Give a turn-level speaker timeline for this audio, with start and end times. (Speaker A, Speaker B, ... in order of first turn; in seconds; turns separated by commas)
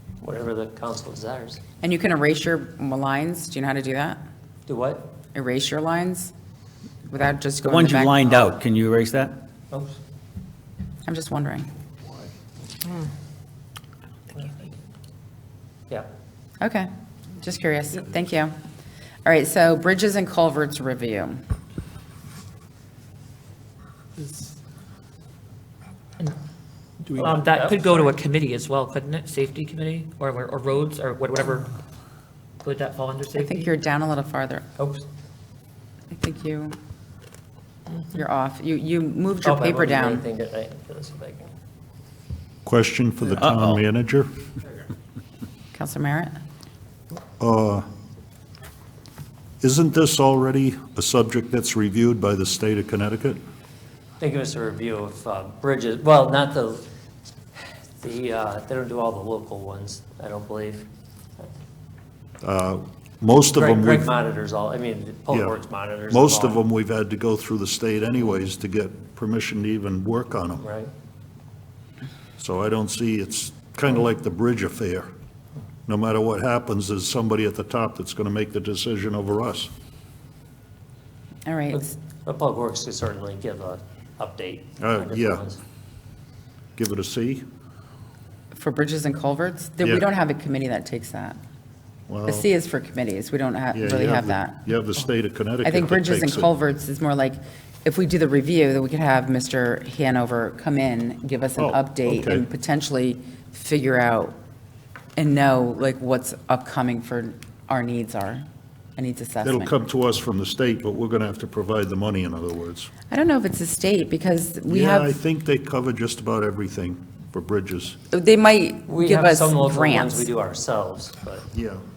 Speaker A: 0.2-1.6, Speaker B: 1.8-4.2, Speaker A: 4.7-5.2, Speaker B: 5.3-6.3, Speaker B: 7.1-8.3, Speaker C: 7.6-9.4, Speaker B: 11.1-11.7, Speaker A: 14.4-14.7, Speaker B: 16.6-18.5, Speaker B: 19.2-21.4, Speaker D: 27.1-31.7, Speaker A: 27.4-27.9, Speaker D: 32.6-33.7, Speaker B: 33.3-34.6, Speaker A: 34.8-35.0, Speaker B: 36.1-36.8, Speaker B: 38.1-40.3, Speaker A: 39.4-41.5, Speaker E: 42.7-44.3, Speaker C: 43.4-43.8, Speaker B: 45.7-46.3, Speaker E: 47.4-47.9, Speaker E: 49.6-53.4, Speaker A: 54.2-56.9, Speaker A: 58.0-60.9, Speaker E: 62.4-64.1, Speaker A: 63.5-66.6, Speaker E: 65.3-65.6, Speaker E: 66.1-70.7, Speaker A: 70.6-70.9, Speaker E: 72.4-75.1, Speaker E: 75.9-79.7, Speaker B: 81.5-82.0, Speaker A: 81.7-85.6, Speaker E: 84.8-85.5, Speaker E: 86.8-87.5, Speaker B: 88.5-91.4, Speaker E: 92.1-92.5, Speaker B: 92.3-94.7, Speaker E: 93.7-96.5, Speaker B: 95.6-104.3, Speaker E: 101.6-102.5, Speaker B: 105.2-108.5, Speaker B: 109.0-109.7, Speaker E: 109.5-112.9, Speaker B: 113.1-115.2, Speaker E: 114.7-118.0, Speaker B: 118.1-120.3, Speaker A: 118.9-121.5, Speaker E: 121.5-121.8